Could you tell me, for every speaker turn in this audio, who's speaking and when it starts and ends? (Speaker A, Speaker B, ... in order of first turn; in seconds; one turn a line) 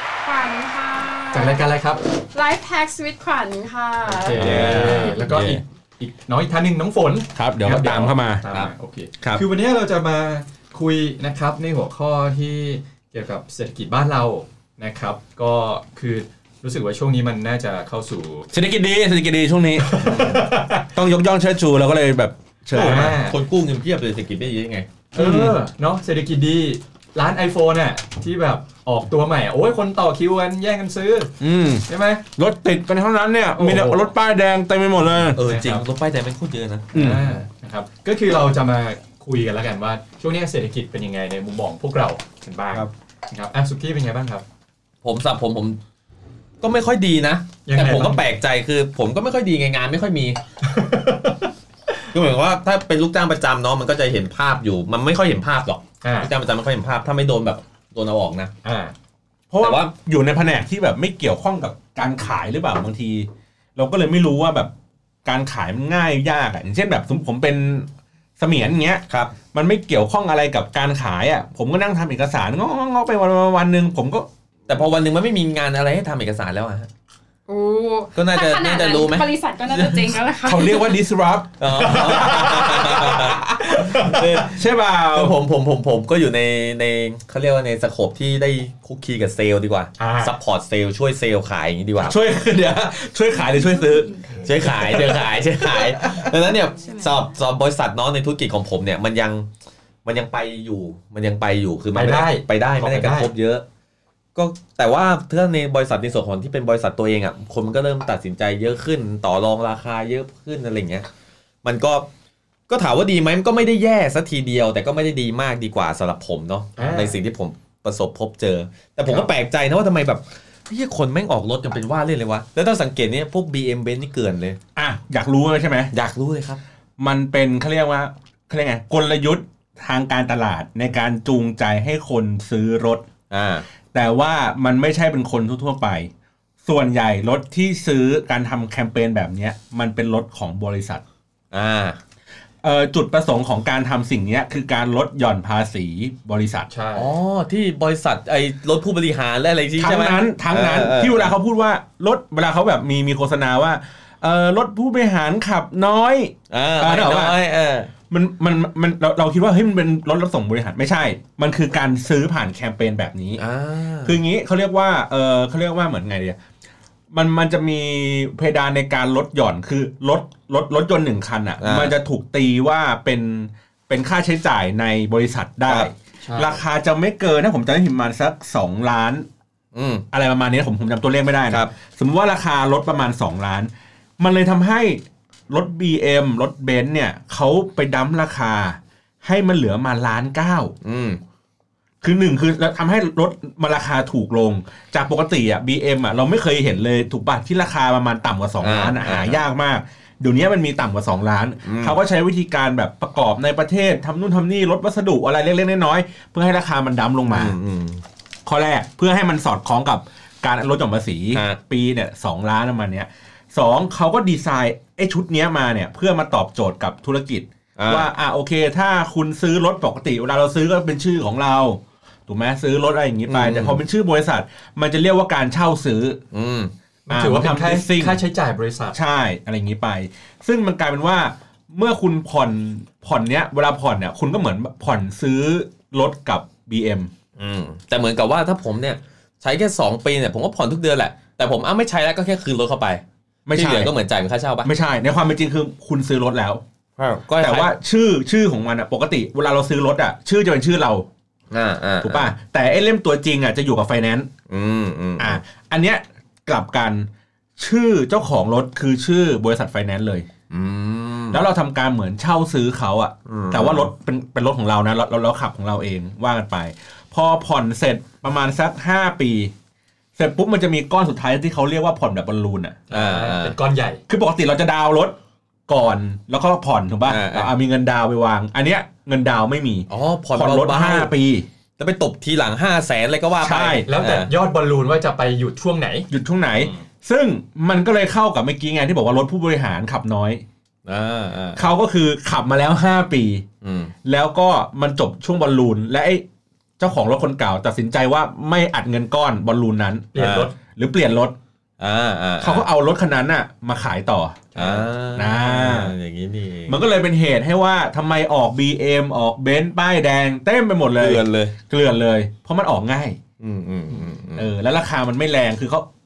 Speaker A: 0.2-1.6
Speaker B: 1.3-2.0
Speaker A: 2.3-4.5
Speaker B: 4.0-18.5
Speaker C: 4.3-5.6
Speaker D: 4.4-5.1
Speaker C: 7.3-8.4
Speaker C: 18.5-23.2
Speaker B: 19.8-20.9
Speaker B: 22.7-23.4
Speaker D: 23.2-24.9
Speaker B: 25.1-31.3
Speaker C: 25.1-25.6
Speaker C: 31.4-35.4
Speaker B: 31.9-32.2
Speaker B: 33.5-34.1
Speaker D: 35.3-36.9
Speaker B: 35.4-35.8
Speaker B: 36.9-44.4
Speaker C: 36.9-37.3
Speaker D: 45.0-45.8
Speaker D: 46.6-50.4
Speaker B: 47.6-48.2
Speaker B: 50.6-51.5
Speaker D: 52.1-58.5
Speaker B: 56.0-56.3
Speaker B: 58.6-58.9
Speaker C: 59.5-64.7
Speaker D: 59.6-59.9
Speaker C: 65.2-74.3
Speaker D: 69.1-69.4
Speaker D: 74.7-76.9
Speaker A: 77.5-81.0
Speaker D: 78.1-79.3
Speaker C: 79.7-85.4
Speaker D: 81.6-92.2
Speaker B: 81.8-84.5
Speaker B: 90.0-90.4
Speaker C: 92.0-96.2
Speaker A: 93.5-94.3
Speaker D: 94.4-99.5
Speaker A: 96.8-97.2
Speaker D: 100.0-103.6
Speaker B: 101.9-103.3
Speaker D: 104.3-111.1
Speaker D: 111.6-112.1
Speaker D: 112.7-124.6
Speaker B: 116.8-117.2
Speaker C: 124.8-125.9
Speaker D: 125.9-126.6
Speaker C: 127.0-133.1
Speaker D: 133.3-133.7
Speaker C: 133.9-136.1
Speaker C: 136.6-141.0
Speaker D: 141.5-142.0
Speaker C: 142.6-146.7
Speaker B: 146.7-147.2
Speaker D: 146.9-151.3
Speaker C: 149.8-157.4
Speaker D: 156.5-157.9
Speaker C: 158.1-163.4
Speaker D: 163.4-164.2
Speaker C: 164.0-166.4
Speaker C: 167.1-179.3
Speaker D: 171.6-171.9
Speaker B: 176.2-176.6
Speaker D: 179.7-180.0
Speaker C: 180.1-190.7
Speaker D: 190.8-191.2
Speaker C: 192.0-207.6
Speaker D: 198.6-199.4
Speaker D: 201.6-202.0
Speaker D: 207.3-208.0
Speaker C: 208.4-226.2
Speaker D: 211.3-211.6
Speaker D: 217.8-218.1
Speaker D: 223.3-223.8
Speaker D: 226.3-226.7
Speaker B: 227.1-229.0
Speaker C: 227.1-228.2
Speaker C: 228.9-237.1
Speaker D: 237.4-244.7
Speaker C: 243.5-243.9
Speaker C: 244.6-246.6
Speaker D: 247.0-247.7
Speaker C: 247.4-251.1
Speaker D: 251.5-252.3
Speaker C: 252.0-254.3
Speaker D: 254.5-255.4
Speaker C: 255.2-260.3
Speaker D: 260.5-261.4
Speaker C: 261.3-269.5
Speaker D: 263.2-263.9
Speaker C: 270.1-272.8
Speaker B: 272.9-274.0
Speaker D: 272.9-273.6
Speaker C: 274.1-275.2
Speaker C: 275.7-281.4
Speaker D: 277.1-277.5
Speaker D: 279.9-281.1
Speaker D: 281.8-284.3
Speaker C: 283.4-283.9
Speaker B: 283.6-286.8
Speaker C: 286.1-290.4
Speaker D: 290.8-291.7
Speaker C: 291.6-293.4
Speaker D: 293.6-293.9
Speaker C: 294.0-296.2
Speaker C: 296.8-301.4
Speaker B: 300.1-300.5
Speaker D: 300.2-300.5
Speaker D: 301.8-302.6
Speaker C: 302.4-304.6
Speaker B: 304.5-304.9
Speaker D: 304.5-306.8
Speaker C: 305.1-305.9
Speaker C: 306.7-313.2
Speaker D: 311.0-311.5
Speaker D: 313.4-314.5
Speaker C: 314.3-315.9